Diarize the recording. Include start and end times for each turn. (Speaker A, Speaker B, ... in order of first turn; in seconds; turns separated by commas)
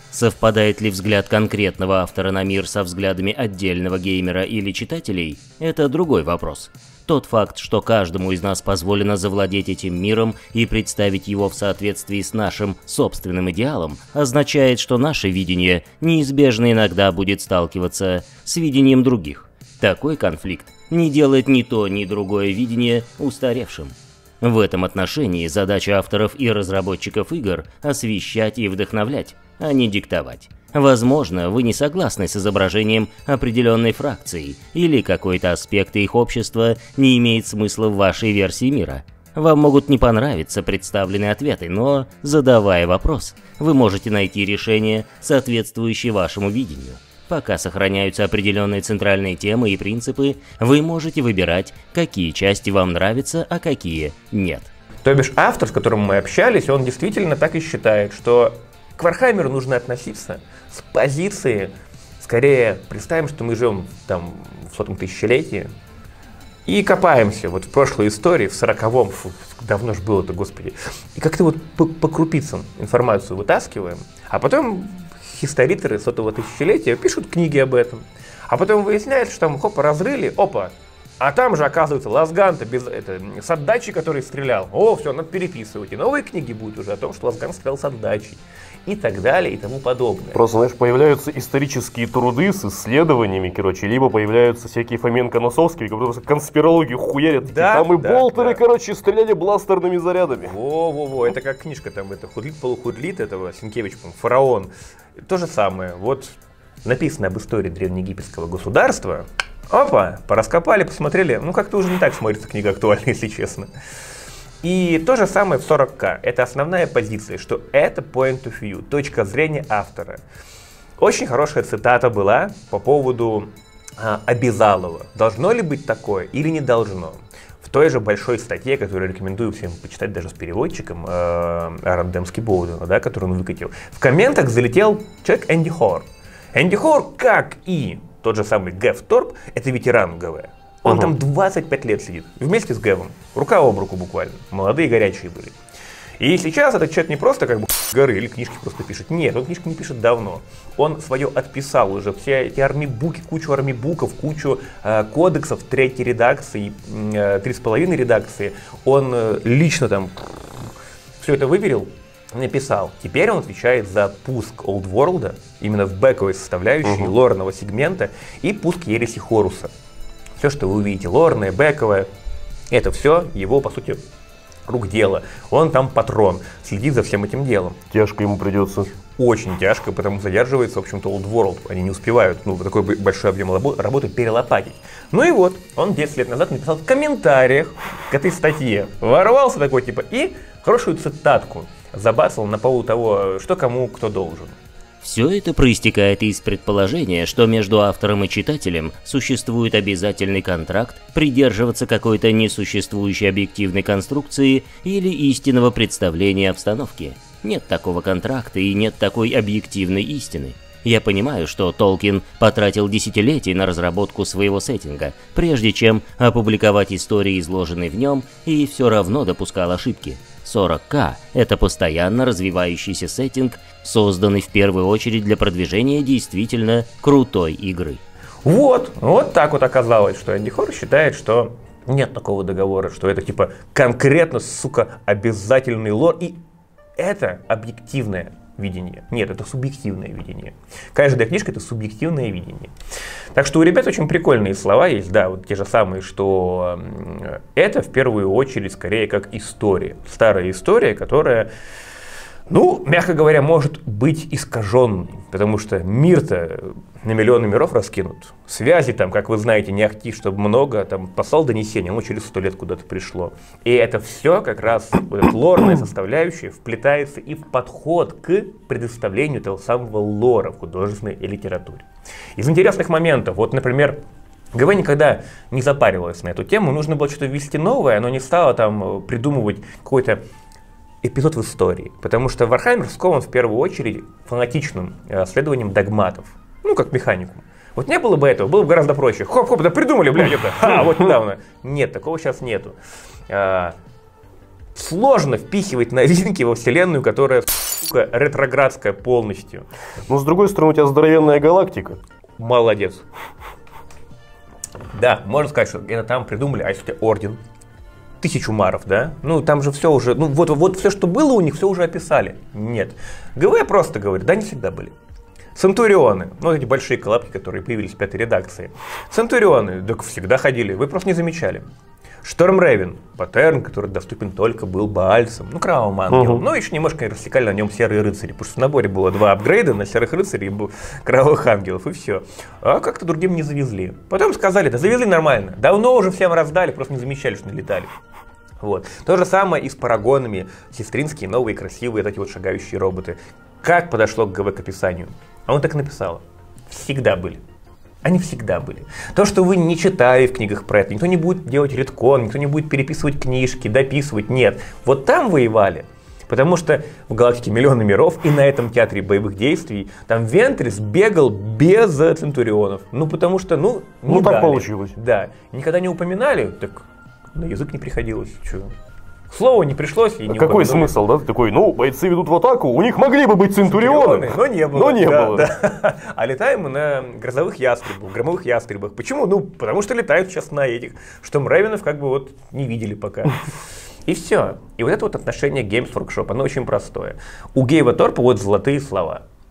Speaker A: 0.1-54.7, Speaker B: 55.0-65.7, Speaker B: 66.7-90.4, Speaker C: 90.3-100.5, Speaker B: 97.4-98.6, Speaker B: 100.4-104.7, Speaker B: 105.2-113.7, Speaker B: 114.6-120.2, Speaker B: 121.0-145.6, Speaker C: 140.8-141.1, Speaker B: 146.2-160.2, Speaker B: 161.2-169.7, Speaker C: 166.8-167.1, Speaker B: 170.4-172.1, Speaker B: 172.7-174.0, Speaker B: 174.7-177.8, Speaker C: 177.9-178.9, Speaker B: 179.2-194.6, Speaker A: 195.0-228.0, Speaker B: 228.4-236.4, Speaker B: 237.0-242.7, Speaker B: 243.3-251.5, Speaker B: 252.5-274.0, Speaker B: 274.5-280.2, Speaker B: 281.0-292.8, Speaker B: 293.3-293.7, Speaker B: 294.7-299.6, Speaker C: 300.1-302.0, Speaker B: 302.4-303.0, Speaker B: 304.9-307.4, Speaker B: 308.2-314.9, Speaker B: 315.5-321.6, Speaker B: 322.2-337.9, Speaker C: 326.1-326.4, Speaker B: 338.6-347.4, Speaker B: 348.0-368.7, Speaker C: 364.1-364.9, Speaker B: 369.3-370.9, Speaker C: 370.3-375.5, Speaker B: 373.6-383.5, Speaker B: 384.1-389.2